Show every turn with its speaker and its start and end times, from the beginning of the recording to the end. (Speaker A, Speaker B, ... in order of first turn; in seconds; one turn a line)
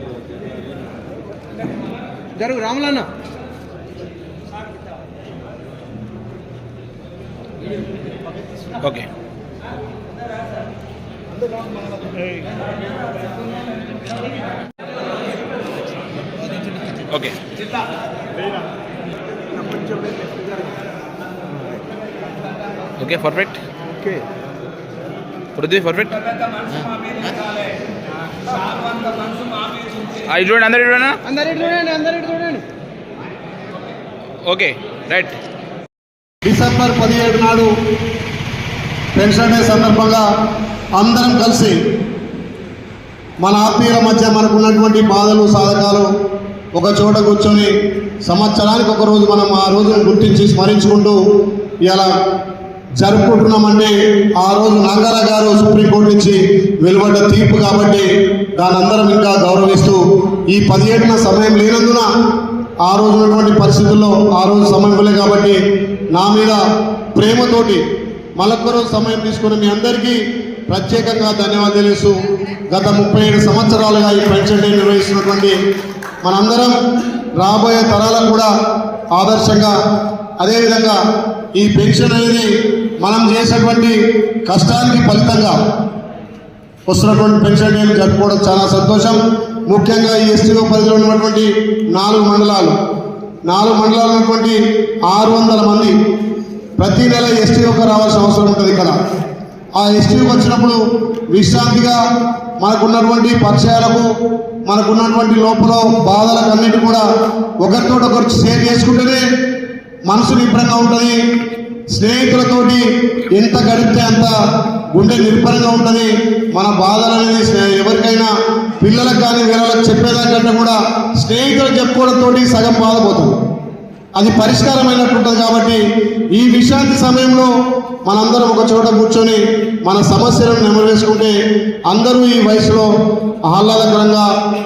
Speaker A: 2.4-3.1
Speaker B: 8.8-9.1
Speaker B: 17.1-17.4
Speaker A: 19.7-20.1
Speaker B: 23.0-23.6
Speaker B: 25.6-27.3
Speaker B: 30.2-31.2
Speaker A: 31.3-32.6
Speaker B: 34.5-35.4
Speaker C: 36.5-37.7
Speaker C: 39.1-40.3
Speaker C: 41.0-41.8
Speaker C: 43.4-46.1
Speaker C: 46.8-47.7
Speaker C: 48.2-51.2
Speaker C: 51.8-52.1
Speaker C: 53.0-62.1
Speaker C: 62.8-65.6
Speaker C: 66.1-66.6
Speaker C: 67.2-67.8
Speaker C: 68.4-72.2
Speaker C: 72.7-75.6
Speaker C: 76.2-76.8
Speaker C: 77.4-78.5
Speaker C: 79.1-79.8
Speaker C: 80.4-81.0
Speaker C: 81.6-82.5
Speaker C: 83.0-85.6
Speaker C: 86.9-92.8
Speaker C: 93.5-95.9
Speaker C: 96.8-99.0
Speaker C: 99.8-100.8
Speaker C: 101.3-102.0
Speaker C: 102.6-104.1
Speaker C: 104.7-107.1
Speaker C: 107.6-109.2
Speaker C: 110.1-111.2
Speaker C: 111.9-114.3
Speaker C: 115.0-118.3
Speaker C: 118.8-123.4
Speaker C: 124.2-125.8
Speaker C: 126.3-127.5
Speaker C: 128.1-131.3
Speaker C: 131.9-132.9
Speaker C: 133.5-134.3